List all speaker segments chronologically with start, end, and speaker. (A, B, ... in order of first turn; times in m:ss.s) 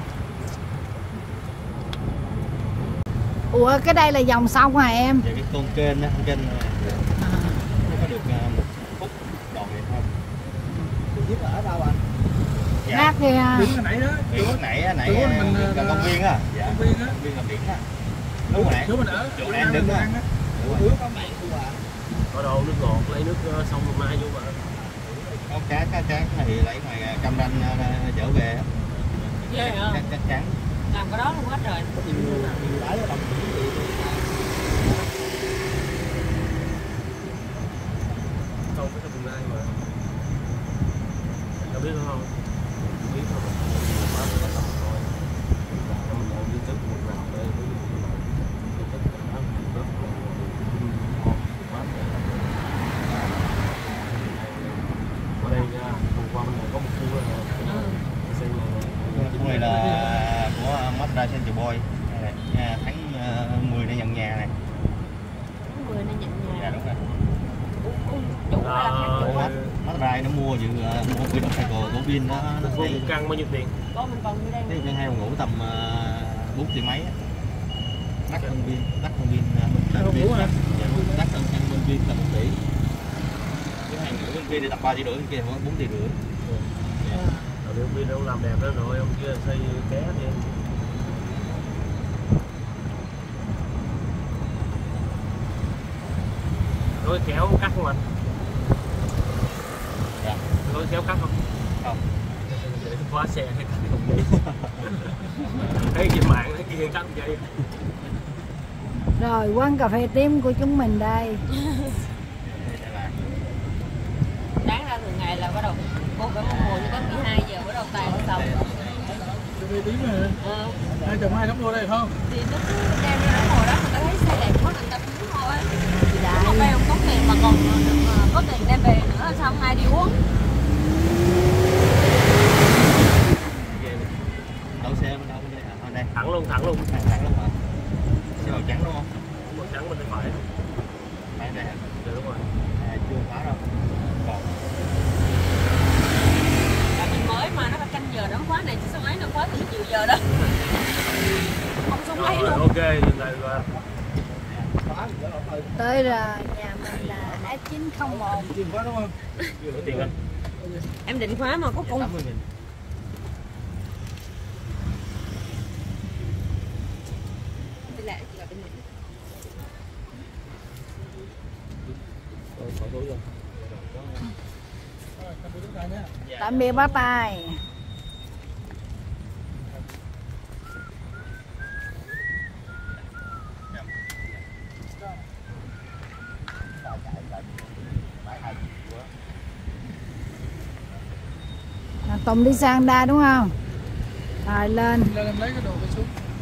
0:03.5-0:05.2 A
0:05.2-0:07.0 B
0:07.2-0:07.6 A
0:07.8-0:10.1 B
0:11.1-0:12.0 C
0:12.8-0:13.2 B
0:12.9-0:13.8 A
0:13.5-0:17.2 D
0:14.3-0:17.8 B
0:18.5-0:20.9 B
0:18.6-0:20.3 D
0:20.6-0:21.8 C
0:22.3-0:24.7 E
0:25.0-0:25.4 C
0:25.5-0:28.7 B
0:29.3-0:30.6 B
0:29.5-0:30.0 F
0:30.9-0:32.0 F
0:32.0-0:34.7 C
0:38.7-0:39.8 E
0:41.6-0:45.1 E
0:45.7-0:59.8 E
0:57.6-0:58.0 F
0:59.1-1:04.5 B
1:05.6-1:06.8 F
1:06.4-1:07.0 B
1:07.8-1:09.5 F
1:08.6-1:09.8 E
1:09.1-1:13.2 B
1:11.4-1:12.0 F
1:12.5-1:13.8 E
1:13.9-1:14.9 F
1:14.7-1:17.2 B
1:18.3-1:22.6 B
1:18.3-1:18.6 E
1:19.9-1:21.2 D
1:23.8-1:26.2 B
1:27.1-1:27.6 D
1:27.6-1:30.5 E
1:37.0-1:38.1 E
1:40.2-1:40.4 B
1:40.6-1:41.4 E
1:42.5-1:44.4 E
1:44.3-1:44.9 B
1:45.7-1:47.5 E
1:49.2-1:51.4 A
1:52.4-1:53.2 B
1:54.6-1:58.8 F
1:56.4-1:57.4 B
1:58.0-1:59.0 B
1:59.1-2:00.4 D
2:00.4-2:00.8 F
2:00.9-2:01.4 C
2:01.0-2:02.1 D
2:02.3-2:05.8 F
2:05.9-2:06.8 A
2:06.3-2:10.2 F
2:13.6-2:14.2 E
2:14.8-2:16.1 B
2:16.1-2:16.9 E
2:16.8-2:17.6 B
2:18.4-2:18.7 E
2:18.4-2:19.1 B
2:19.4-2:20.5 E
2:21.4-2:21.9 B
2:21.9-2:22.5 E
2:22.8-2:24.5 B
2:27.0-2:30.3 F
2:31.9-2:32.7 F
2:32.1-2:33.7 E
2:34.8-2:36.3 C
2:35.8-2:38.5 A
2:36.9-2:37.4 C
2:38.3-2:39.2 D
2:39.6-2:40.1 E
2:40.6-2:42.2 F
2:41.8-2:42.4 B
2:47.9-2:48.8 F
2:52.6-2:53.3 E
2:55.2-2:56.1 D
2:56.2-2:56.9 B
2:56.4-2:57.6 A
3:06.8-3:09.1 C
3:12.1-3:13.5 A
3:14.4-3:15.1 A
3:15.0-3:16.1 D